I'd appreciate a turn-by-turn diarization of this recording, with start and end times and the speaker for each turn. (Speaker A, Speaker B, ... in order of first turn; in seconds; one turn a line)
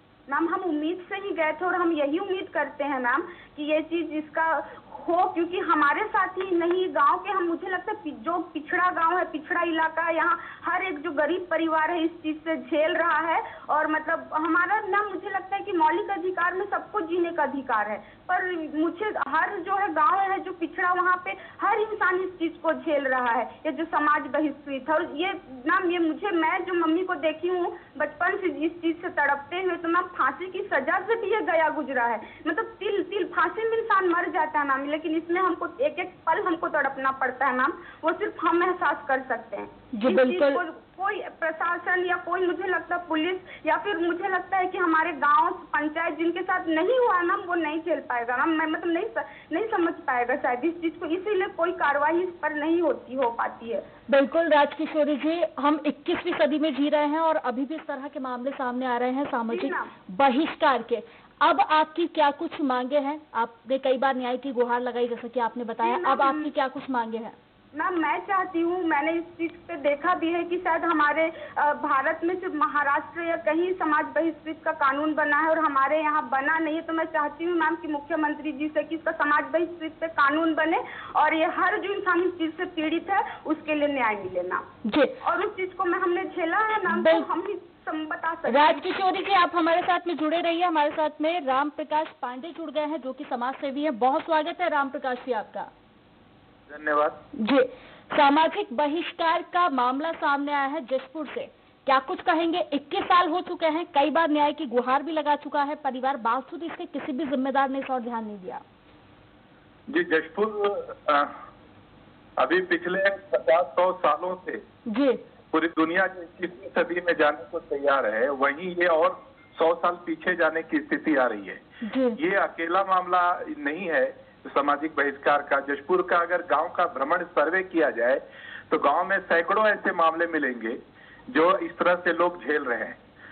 Speaker A: 0.3-53.8
Speaker B: 39.9-40.6
Speaker B: 54.1-67.3
Speaker A: 59.5-59.9
Speaker A: 65.8-66.5
Speaker A: 67.7-84.6
Speaker B: 84.8-85.2
Speaker A: 85.2-89.0
Speaker B: 86.9-87.3
Speaker B: 88.5-95.7
Speaker C: 96.7-97.2
Speaker B: 97.4-108.6
Speaker C: 109.9-111.3
Speaker C: 112.4-114.6
Speaker B: 114.9-115.2
Speaker C: 115.5-121.6
Speaker B: 121.8-122.2
Speaker C: 122.2-133.0